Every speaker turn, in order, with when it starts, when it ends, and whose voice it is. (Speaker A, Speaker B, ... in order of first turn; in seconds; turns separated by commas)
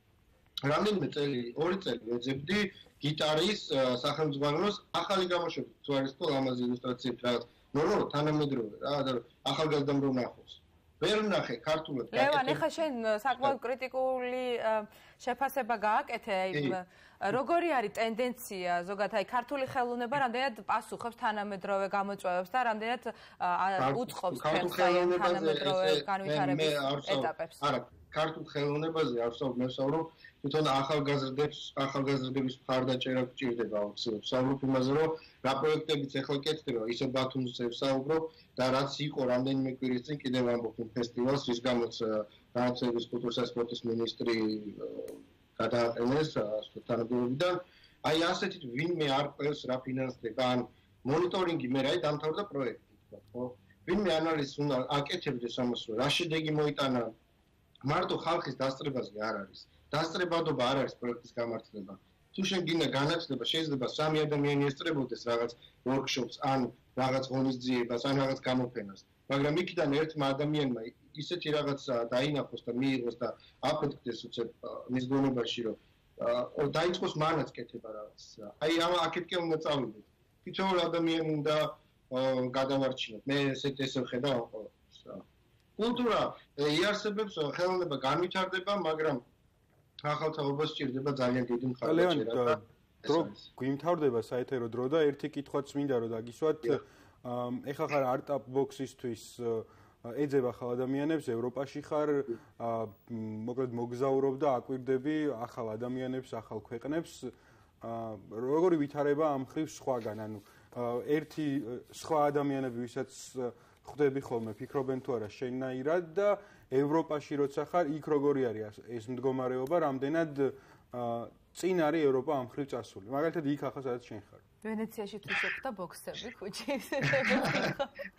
Speaker A: 0.6-12.6, Speaker B: 12.1-27.6, Speaker A: 16.5-16.8, Speaker A: 23.8-57.1, Speaker A: 57.8-85.2, Speaker A: 85.8-89.2, Speaker A: 90.0-93.4, Speaker C: 91.8-124.4, Speaker B: 124.6-127.9, Speaker A: 127.2-127.6